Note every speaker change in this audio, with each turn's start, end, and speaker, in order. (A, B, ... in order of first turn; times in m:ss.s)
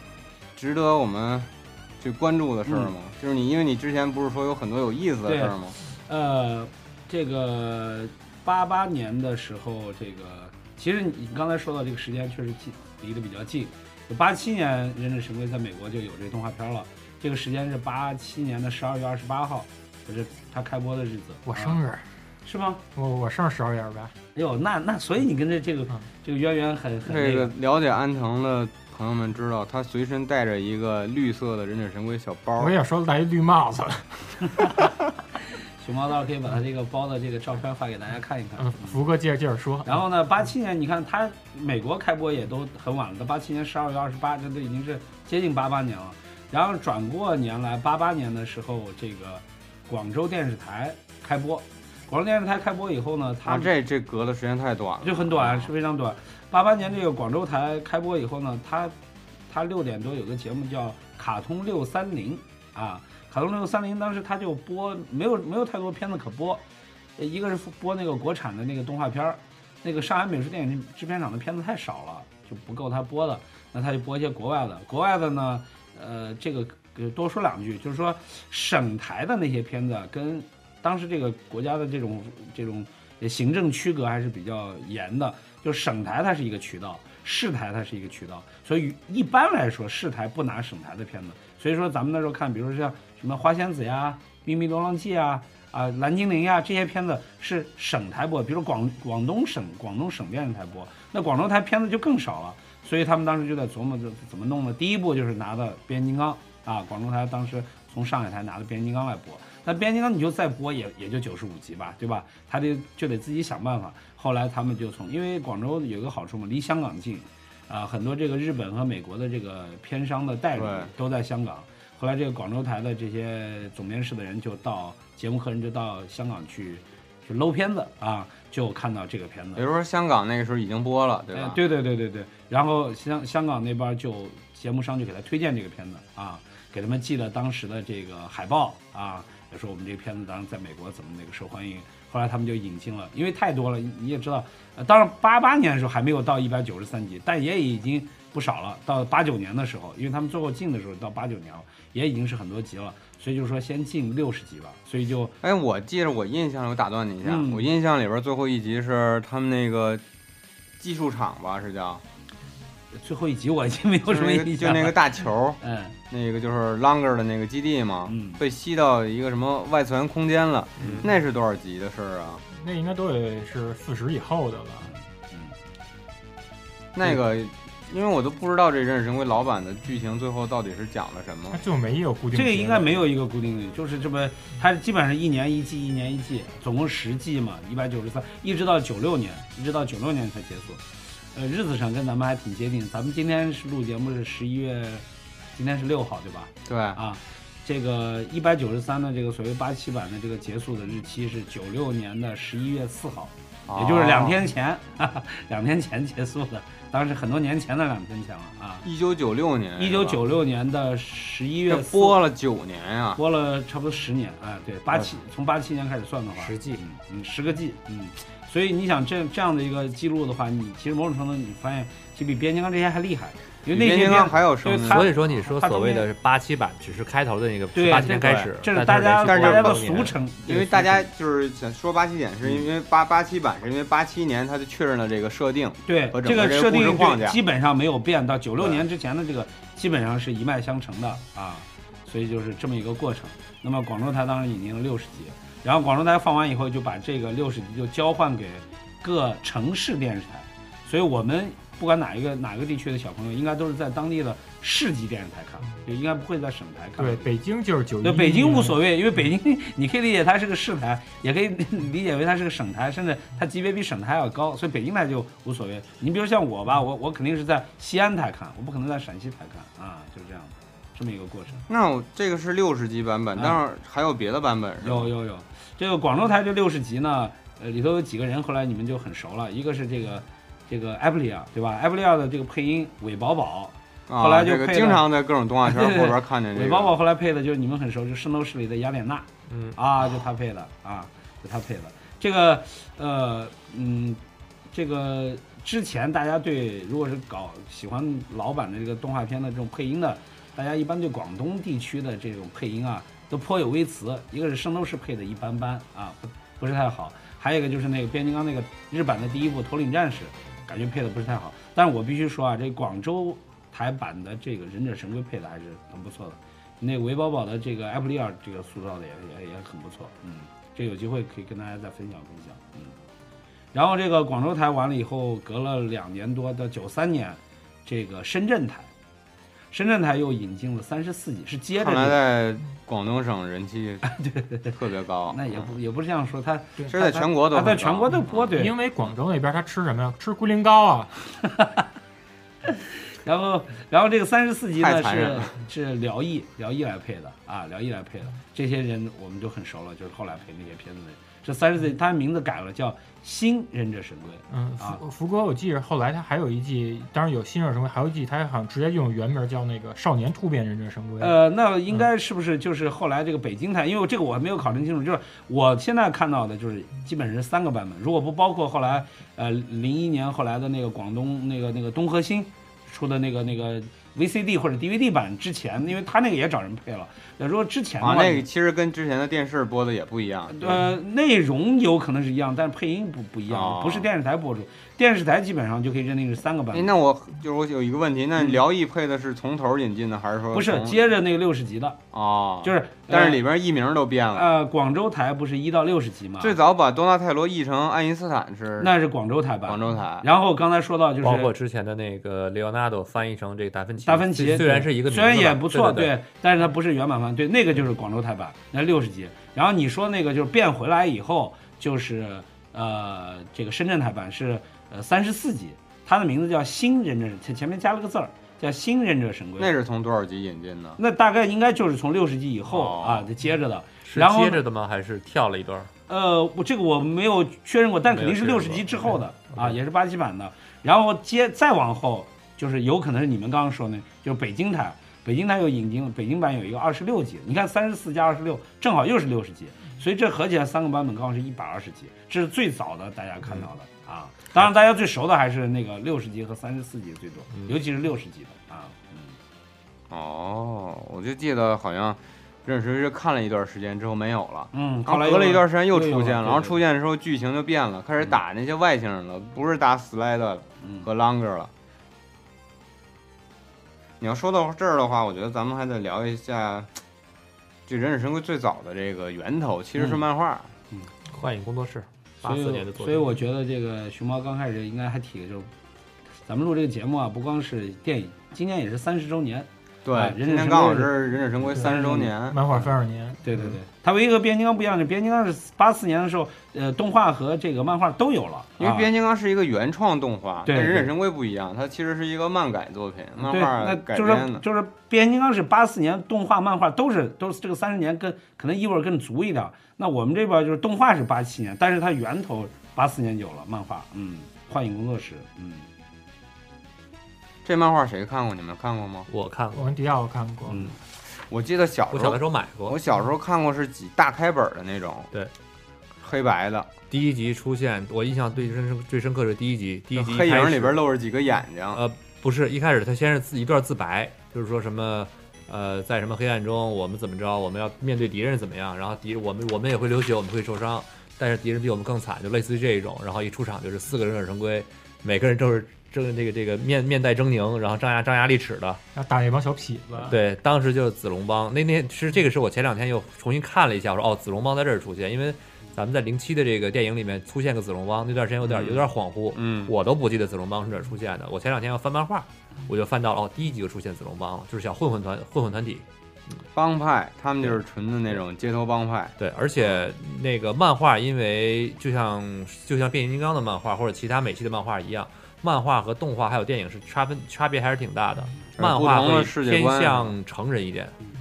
0:00.6-0:05.8 A
0:02.7-0:02.9 B
0:05.3-0:21.8 B
0:21.5-0:22.0 C
0:22.4-0:22.8 B
0:23.0-0:24.1 C
0:24.4-0:27.5 B
0:27.0-0:32.8 A
0:32.6-0:34.5 C
0:35.8-0:39.0 B
0:38.6-0:40.0 C
0:39.8-0:53.7 B
0:53.4-0:55.7 A
0:55.0-0:59.0 B
0:59.5-1:06.6 B
1:07.2-2:09.6 B
2:00.5-2:00.9 A
2:09.6-2:11.6 A
2:11.3-2:35.4 B
2:35.4-2:40.0 A
2:37.2-2:37.7 B
2:40.8-2:42.0 A
2:42.9-2:46.0 B
2:44.1-2:45.6 A
2:46.1-2:52.4 A
2:48.1-2:48.4 B
2:50.8-2:51.0 D
2:52.5-2:54.9 C
2:54.8-2:55.5 B
2:57.0-3:01.6 A
3:01.5-3:03.0 C
3:02.3-3:28.8 B
3:16.7-3:17.0 A
3:23.7-3:24.4 A
3:28.8-3:30.2 A
3:29.8-3:32.2 B
3:31.7-3:33.2 A
3:33.2-3:46.1 B
3:36.4-3:36.8 D
3:43.7-3:45.1 A
3:44.9-3:50.2 D
3:47.7-3:51.1 B
3:49.2-3:57.4 A
3:55.9-4:17.3 B
4:17.0-4:18.8 C
4:18.0-4:31.6 B
4:31.7-4:35.1 A
4:34.8-4:45.1 B
4:44.1-4:47.0 A
4:45.7-5:23.0 B
4:49.5-4:49.8 D
5:23.7-5:28.9 B
5:29.7-5:32.2 B
5:31.8-5:34.1 A
5:34.1-5:34.7 B
5:34.7-5:35.7 A
5:35.3-5:38.8 B
5:36.9-5:38.5 A
5:38.6-5:41.2 C
5:42.7-5:55.0 B
5:44.7-5:45.6 A
5:54.5-6:01.4 C
6:01.2-6:18.4 B
6:18.0-6:20.9 A
6:20.5-6:26.9 B
6:23.5-6:24.1 A
6:26.7-6:31.0 A
6:30.5-6:32.0 B
6:32.1-6:34.5 A
6:32.6-6:33.4 B
6:34.3-6:36.6 B
6:36.4-6:38.9 A
6:38.8-6:41.5 B
6:39.6-6:40.3 A
6:41.2-6:46.1 D
6:44.0-6:59.7 B
6:59.6-7:01.0 A
7:01.0-7:04.6 B
7:02.7-7:03.3 A
7:04.0-7:05.9 D
7:06.1-7:29.4 B
7:08.1-7:09.8 D
7:30.1-7:41.7 A
7:34.7-7:36.8 B
7:40.8-7:41.1 B
7:44.2-7:46.9 A
7:47.9-7:50.7 A
7:51.3-7:53.3 D
7:52.4-7:55.7 B
7:56.4-8:01.1 B
8:00.0-8:02.6 A
8:01.7-8:03.4 C
8:01.7-8:02.0 B
8:03.4-8:09.1 B
8:08.8-8:14.6 A
8:10.7-8:11.1 B
8:13.4-8:25.9 B
8:27.6-8:29.3 A
8:29.3-8:29.9 D
8:29.8-8:30.8 C
8:31.4-8:35.3 A
8:32.1-8:33.0 D
8:36.2-8:36.9 A
8:37.1-8:41.0 D
8:40.1-8:42.0 A
8:41.9-8:59.0 D
8:59.2-9:00.4 C
9:00.2-9:16.0 D
9:08.6-9:09.9 A
9:16.7-9:20.1 A
9:19.4-9:31.2 D
9:28.8-9:30.3 A